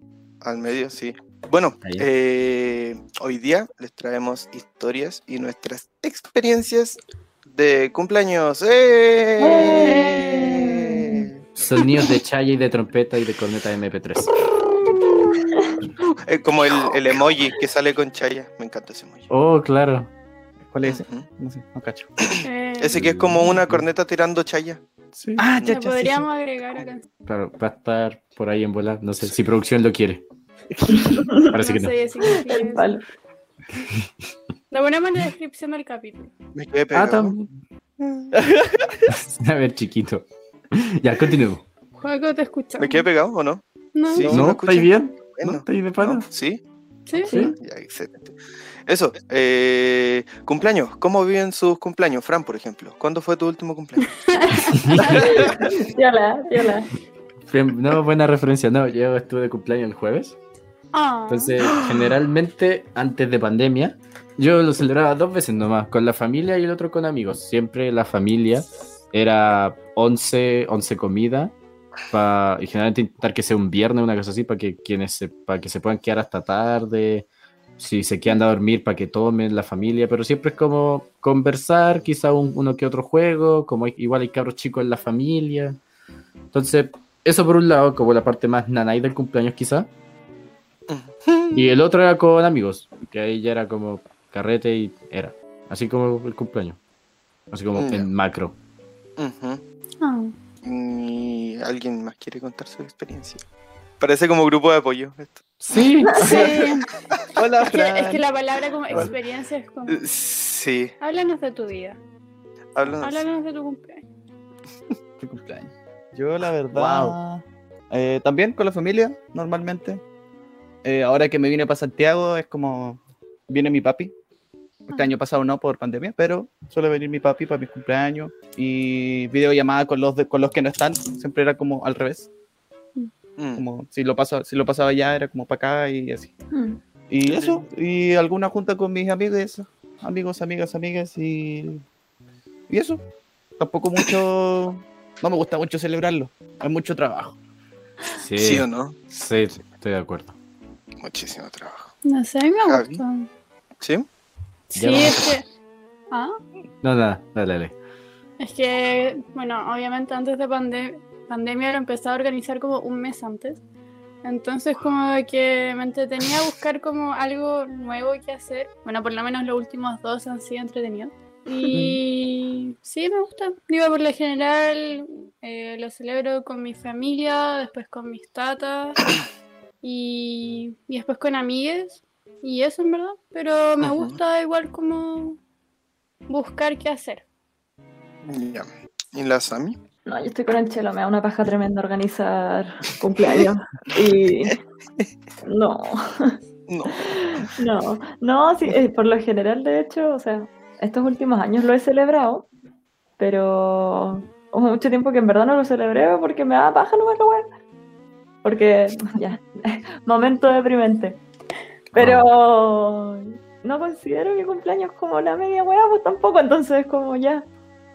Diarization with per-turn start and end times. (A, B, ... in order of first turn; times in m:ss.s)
0:00.4-0:11.4 A
0:09.4-0:11.3 B
0:09.8-0:10.7 C
0:11.6-0:14.4 D
0:14.7-0:15.4 C
0:15.5-0:15.8 B
0:16.2-0:19.3 A
0:19.3-0:20.1 D
0:20.7-0:22.1 E
0:20.8-0:21.3 A
0:22.2-0:24.8 A
0:22.4-0:23.0 C
0:23.0-0:23.8 D
0:25.2-0:26.2 E
0:25.6-0:27.0 C
0:27.2-0:30.2 D
0:30.7-0:31.3 E
0:30.9-0:31.5 B
0:31.5-0:31.9 D
0:31.5-0:33.0 C
0:32.3-0:33.0 B
0:34.7-0:36.3 C
0:36.5-0:37.4 A
0:36.9-0:37.5 D
0:38.0-0:38.3 A
0:38.3-0:39.1 E
0:39.1-0:41.6 D
0:42.0-0:43.0 C
0:42.8-0:46.6 A
0:43.9-0:44.3 C
0:44.1-0:44.4 E
0:44.3-0:46.2 D
0:47.1-0:47.3 C
0:47.2-0:47.5 B
0:47.3-0:47.5 D
0:47.3-0:48.3 A
0:48.9-0:54.1 A
0:54.0-0:55.3 C
0:54.7-0:55.2 D
0:55.0-0:56.9 B
0:57.5-1:00.3 D
1:00.9-1:01.6 C
1:01.3-1:11.5 D
1:12.1-1:17.3 D
1:17.8-1:25.8 D
1:26.5-1:29.9 D
1:30.9-1:31.8 A
1:31.5-1:36.8 D
1:37.5-1:38.5 D
1:37.7-1:38.1 A
1:39.2-1:39.6 A
1:40.0-1:40.3 C
1:40.6-1:43.4 A
1:44.0-1:45.8 A
1:45.6-1:46.5 D
1:46.2-1:46.9 C
1:46.2-1:46.7 E
1:47.4-1:48.2 E
1:47.6-1:50.0 C
1:49.9-1:50.9 A
1:51.0-1:52.0 C
1:52.8-1:53.3 A
1:53.0-1:54.0 C
1:55.2-2:00.0 E
1:56.7-1:57.2 D
2:00.8-2:04.1 E
2:04.9-2:12.3 E
2:13.4-2:13.6 A
2:13.6-2:16.3 E
2:16.5-2:16.8 B
2:17.1-2:21.8 E
2:17.2-2:17.6 A
2:22.7-2:23.0 E
2:23.6-2:27.4 E
2:28.1-2:30.3 D
2:28.4-2:29.0 A
2:31.0-2:31.9 A
2:32.0-2:33.3 C
2:32.6-2:33.0 A
2:34.7-2:35.4 C
2:34.8-2:35.3 D
2:36.1-2:36.4 C
2:36.8-2:37.8 D
2:38.4-2:43.6 C
2:44.2-2:59.0 C
2:59.8-3:05.4 C
3:03.8-3:04.1 A
3:06.3-3:07.2 C
3:08.2-3:09.8 A
3:10.1-3:14.6 B
3:15.4-3:16.4 B
3:16.7-3:17.5 A
3:17.0-3:22.5 B
3:23.2-3:27.4 B
3:28.4-3:31.2 B
3:31.9-3:37.4 B
3:32.0-3:32.3 D